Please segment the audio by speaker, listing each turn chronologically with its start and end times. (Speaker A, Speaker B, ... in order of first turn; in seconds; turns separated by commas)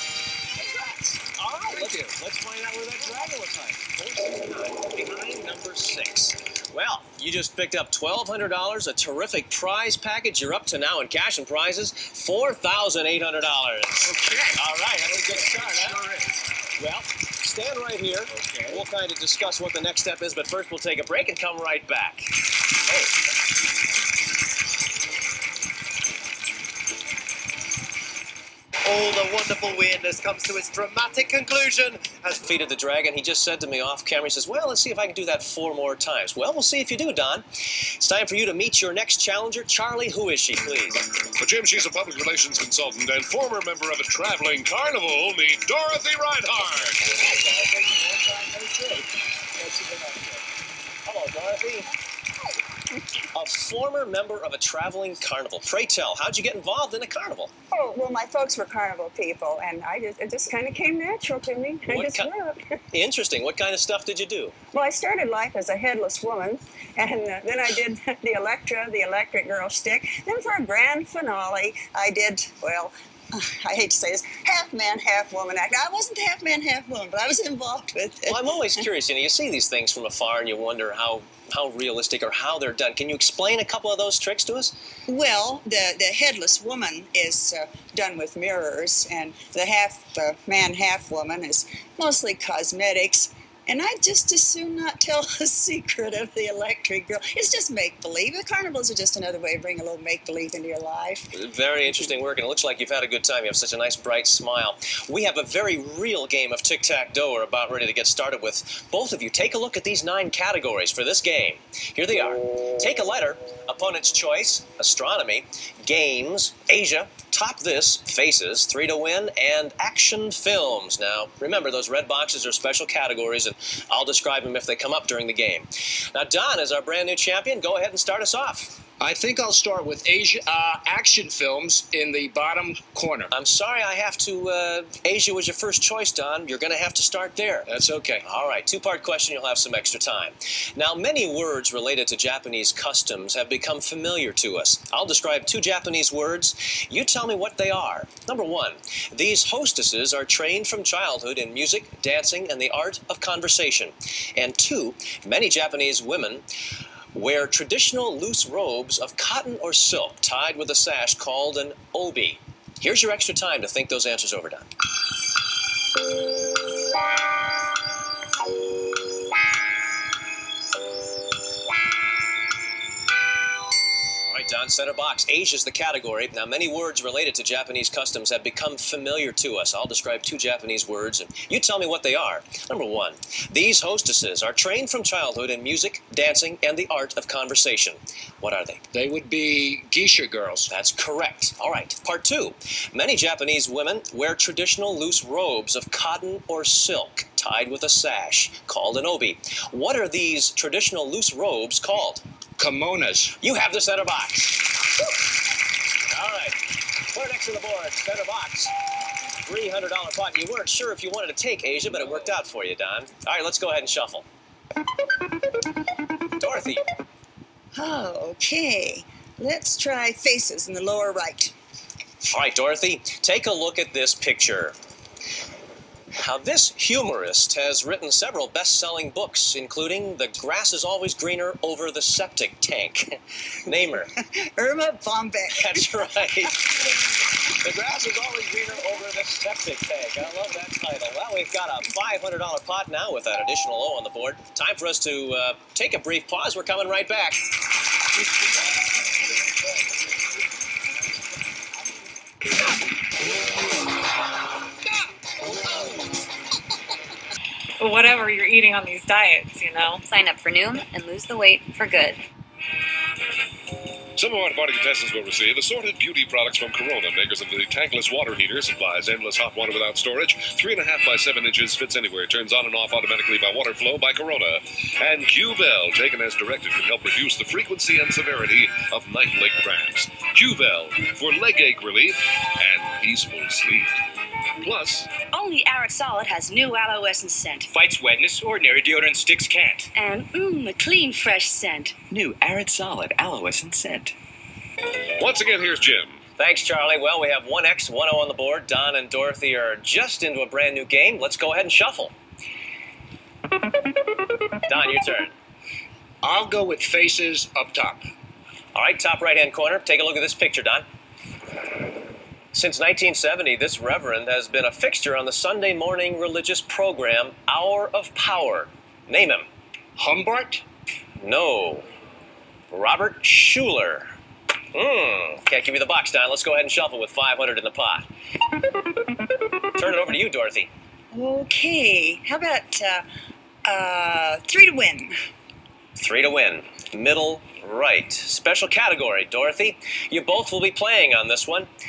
Speaker A: 0.5-2.1, Speaker B: 1.3-16.0, Speaker A: 14.0-16.5, Speaker B: 16.8-22.3, Speaker A: 18.3-18.8, Speaker C: 28.8-32.4, Speaker B: 32.4-41.0, Speaker D: 41.4-47.1, Speaker A: 47.1-50.4, Speaker B: 51.0-51.9, Speaker B: 53.3-57.5, Speaker E: 57.7-62.7, Speaker B: 61.9-62.3, Speaker B: 62.9-64.5, Speaker E: 64.7-78.6, Speaker B: 78.3-84.8, Speaker E: 85.1-101.3, Speaker B: 101.3-128.8, Speaker A: 129.0-133.3, Speaker B: 133.3-137.7, Speaker A: 137.7-138.2, Speaker B: 138.2-156.4, Speaker B: 157.1-164.7, Speaker B: 174.3-188.8, Speaker A: 188.9-190.7, Speaker B: 190.7-202.2, Speaker A: 202.6-203.4, Speaker B: 203.4-204.8, Speaker B: 206.1-206.6, Speaker B: 207.1-208.7, Speaker B: 209.4-214.2, Speaker B: 216.4-216.8, Speaker E: 217.8-221.5, Speaker B: 222.2-224.8, Speaker B: 226.1-234.1, Speaker E: 234.2-235.9, Speaker B: 235.5-236.8, Speaker B: 237.5-247.4, Speaker F: 257.8-260.0, Speaker G: 260.1-262.2, Speaker D: 264.2-283.9, Speaker D: 284.6-285.1, Speaker H: 285.3-287.7, Speaker I: 287.7-289.9, Speaker H: 289.9-292.0, Speaker I: 292.1-294.1, Speaker D: 295.2-296.2, Speaker B: 296.4-302.1, Speaker B: 304.7-305.3, Speaker A: 306.2-308.0, Speaker B: 308.8-310.9, Speaker B: 312.5-319.5, Speaker A: 320.0-320.6, Speaker B: 321.2-321.9, Speaker B: 322.7-324.1, Speaker B: 324.7-328.1, Speaker B: 329.7-330.7, Speaker E: 331.1-333.1, Speaker E: 333.6-335.1, Speaker B: 336.0-341.7